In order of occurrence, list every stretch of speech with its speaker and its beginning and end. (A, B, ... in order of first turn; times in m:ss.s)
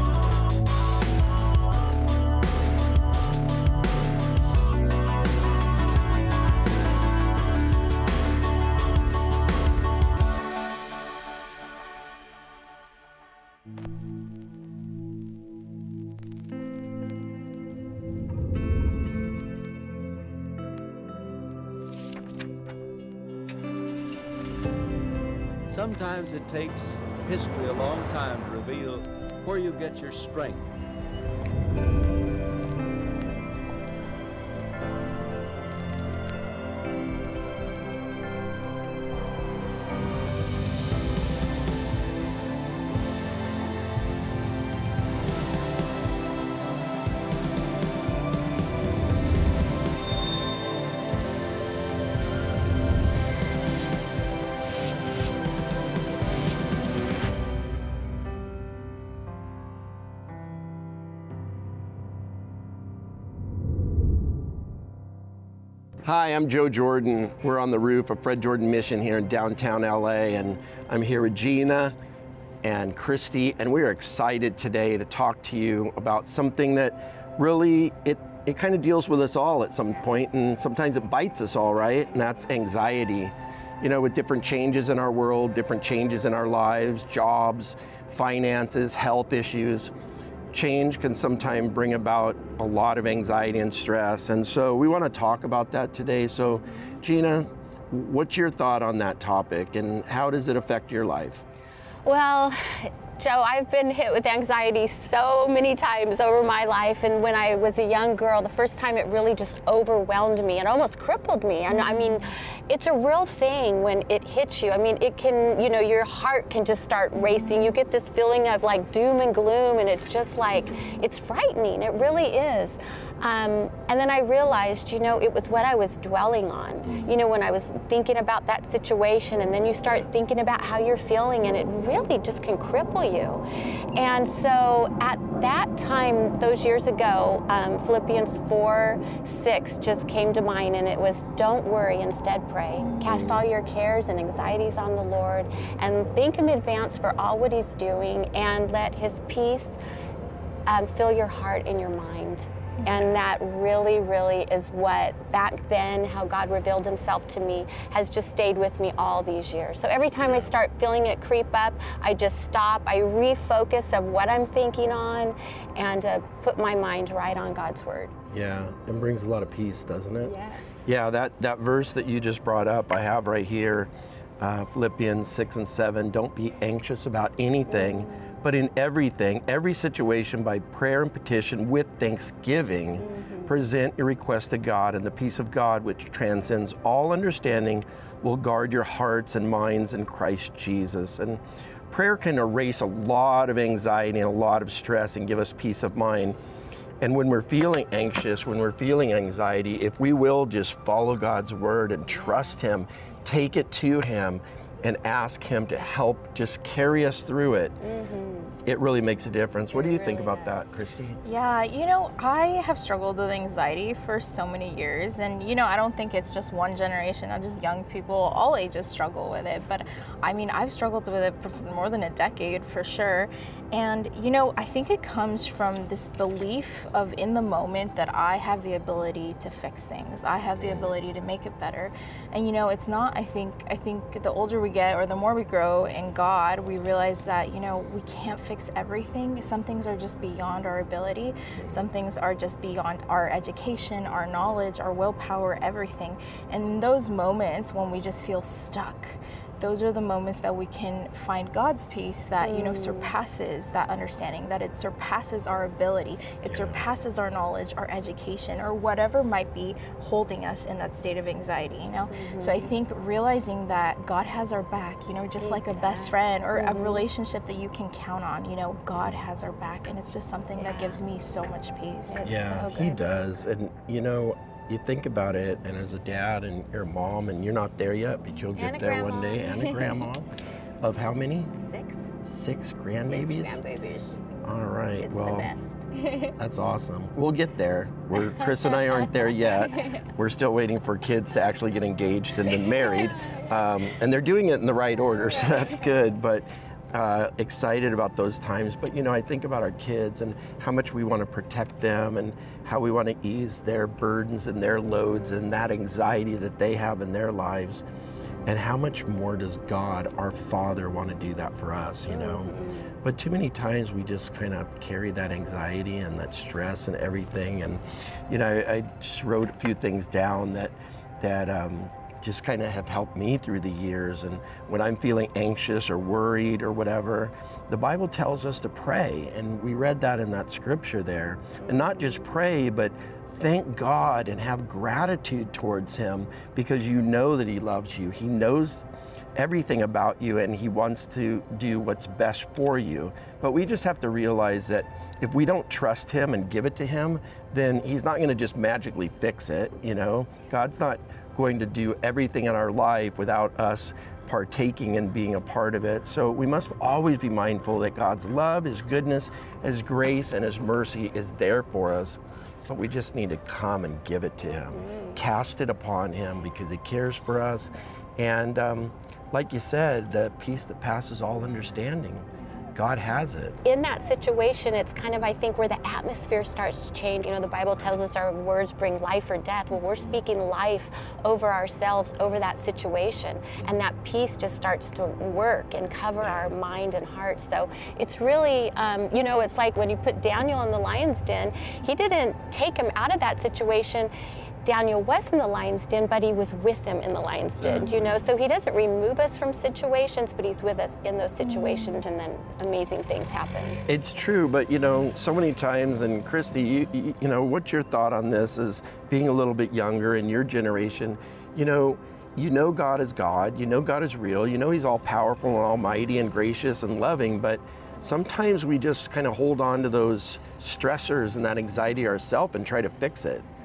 0:25.7-0:30.7 A
1:06.0-1:12.0 B
1:12.6-1:29.9 B
1:30.5-1:41.4 B
1:42.0-2:13.4 C
2:13.9-2:29.8 C
2:30.7-2:48.2 C
2:40.2-2:40.5 B
2:48.3-2:50.3 B
2:50.2-2:50.9 C
2:50.8-3:16.4 B
2:57.7-2:58.4 C
3:03.0-3:03.5 C
3:17.0-3:27.8 B
3:22.1-3:22.6 C
3:27.8-3:28.5 C
3:28.7-3:31.2 B
3:29.7-3:30.7 C
3:31.2-4:33.1 D
3:50.6-3:50.9 B
4:12.4-4:13.2 C
4:16.4-4:16.9 B
4:22.1-4:22.7 C
4:25.4-4:27.1 C
4:30.6-4:31.0 C
4:32.1-4:33.3 C
4:32.2-4:40.3 B
4:38.6-4:40.0 C
4:40.8-4:41.6 B
4:41.6-4:42.1 C
4:42.2-4:43.6 B
4:43.0-4:44.2 C
4:44.4-4:45.5 B
4:45.0-4:45.9 C
4:46.4-5:07.8 B
5:08.4-6:13.6 B
5:12.1-5:13.0 C
6:04.7-6:05.2 C
6:13.6-6:34.1 C
6:17.8-6:18.0 B
6:26.2-6:26.6 B
6:34.6-6:43.8 C
6:37.6-6:38.1 B
6:41.5-6:41.9 D
6:43.9-7:03.5 B